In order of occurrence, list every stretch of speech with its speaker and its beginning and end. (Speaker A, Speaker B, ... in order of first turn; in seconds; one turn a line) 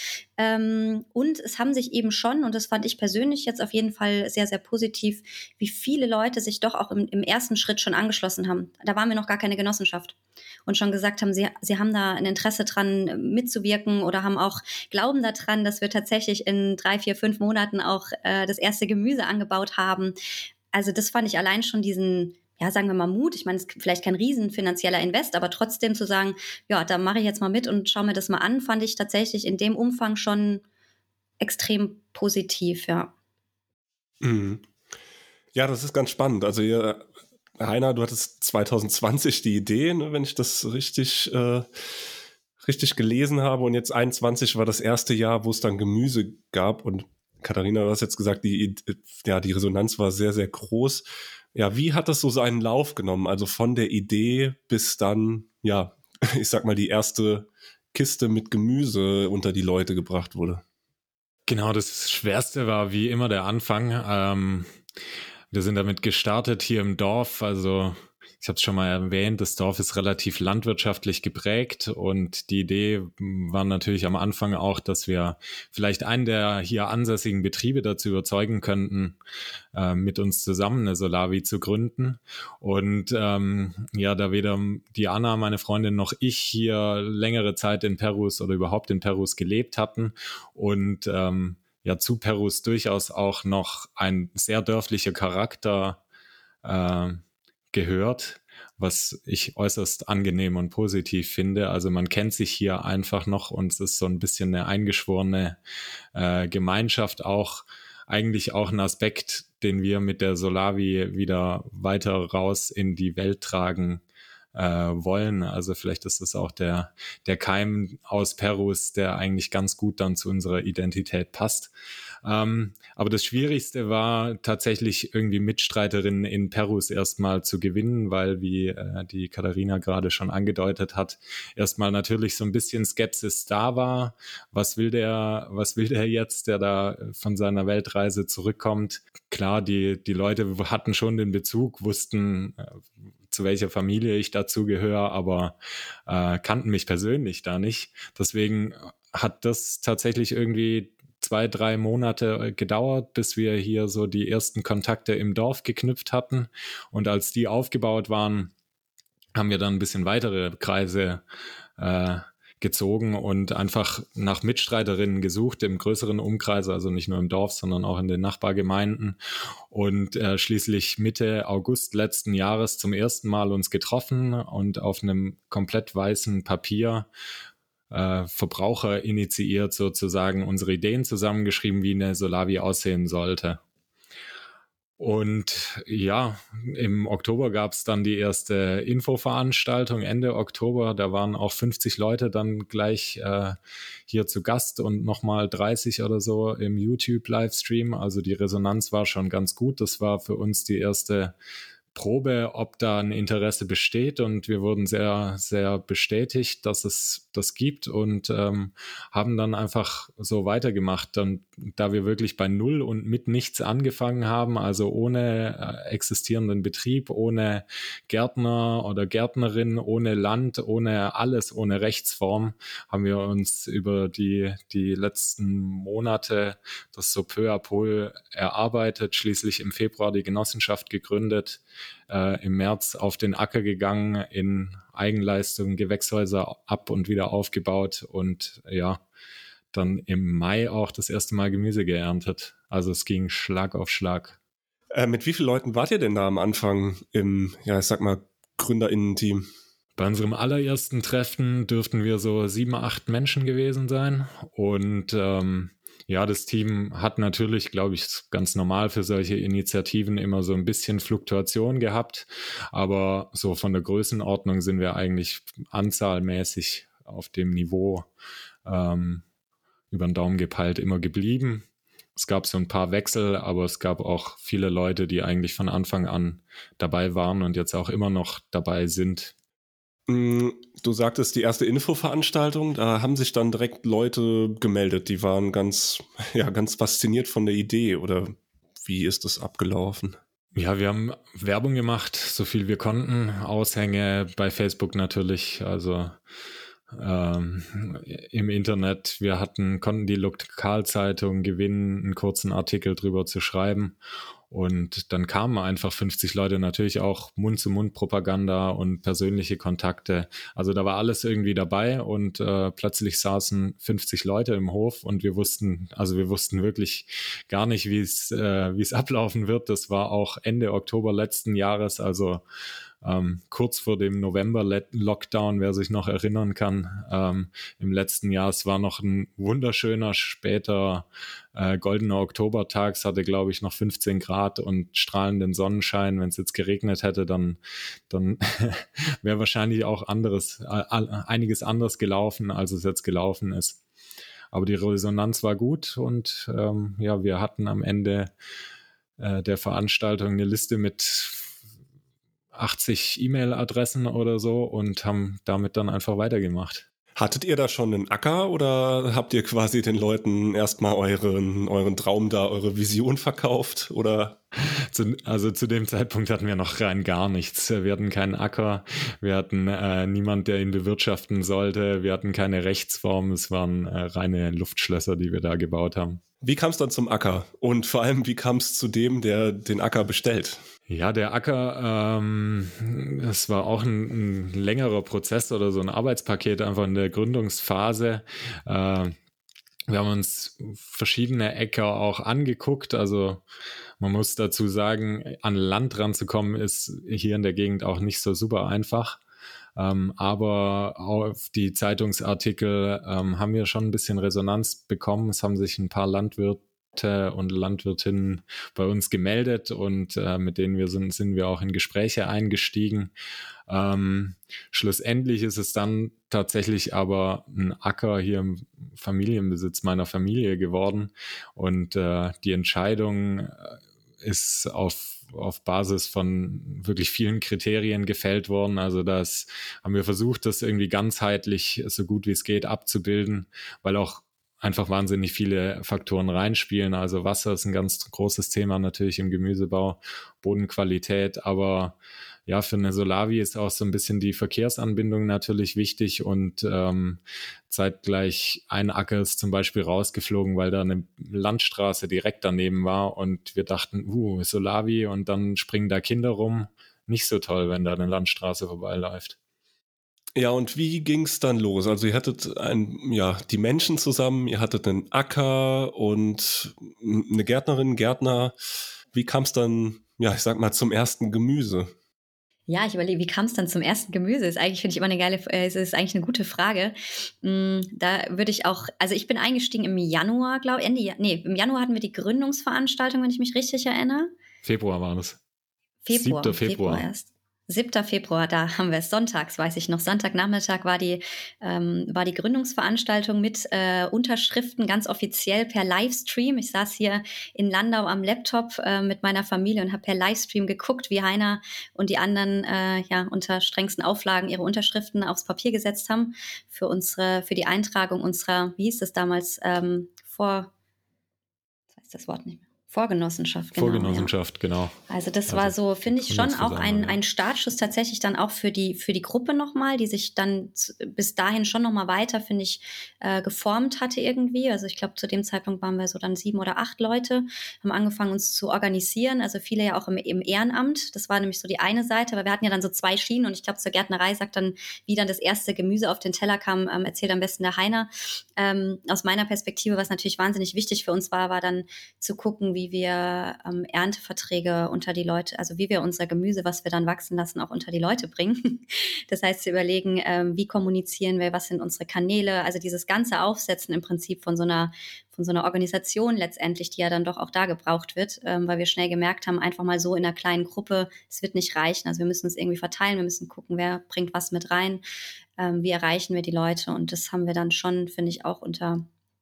Speaker A: 0.4-10.1
Speaker A: 10.7-20.1
Speaker A: 20.7-30.6
Speaker A: 31.4-33.1
Speaker B: 34.2-34.6
Speaker B: 35.5-42.0
Speaker B: 42.6-60.6
Speaker C: 61.5-64.7
Speaker C: 65.5-79.2
Speaker C: 79.7-96.0
Speaker C: 96.6-105.6
Speaker C: 106.1-114.0
Speaker C: 114.5-121.7
Speaker C: 122.2-145.6
Speaker C: 146.1-158.5
Speaker C: 159.3-161.2
Speaker C: 161.8-169.2
Speaker C: 169.7-177.1
Speaker C: 177.9-183.6
Speaker C: 185.0-201.3
Speaker C: 201.9-239.0
Speaker C: 239.7-244.4
Speaker B: 244.9-249.5
Speaker C: 250.0-268.1
Speaker C: 268.6-269.2
Speaker C: 269.9-271.6
Speaker C: 272.1-279.3
Speaker B: 280.1-290.2
Speaker C: 290.5-296.2
Speaker C: 296.9-303.9
Speaker C: 304.5-322.4
Speaker C: 323.0-337.6
Speaker C: 338.1-343.8
Speaker C: 344.5-348.3
Speaker C: 349.2-351.5
Speaker C: 352.5-356.8
Speaker B: 357.1-364.4
Speaker C: 364.7-376.2
Speaker B: 376.4-380.6
Speaker C: 380.9-389.1
Speaker C: 389.9-393.4
Speaker C: 394.0-399.2
Speaker C: 399.8-413.1
Speaker C: 413.7-441.9
Speaker C: 442.5-459.4
Speaker B: 460.4-468.6
Speaker B: 469.1-471.9
Speaker A: 472.7-484.3
Speaker C: 484.6-485.4
Speaker A: 486.0-510.7
Speaker C: 486.1-487.1
Speaker A: 512.0-514.3
Speaker C: 513.8-515.0
Speaker A: 515.1-565.0
Speaker C: 515.5-517.2
Speaker A: 565.6-569.0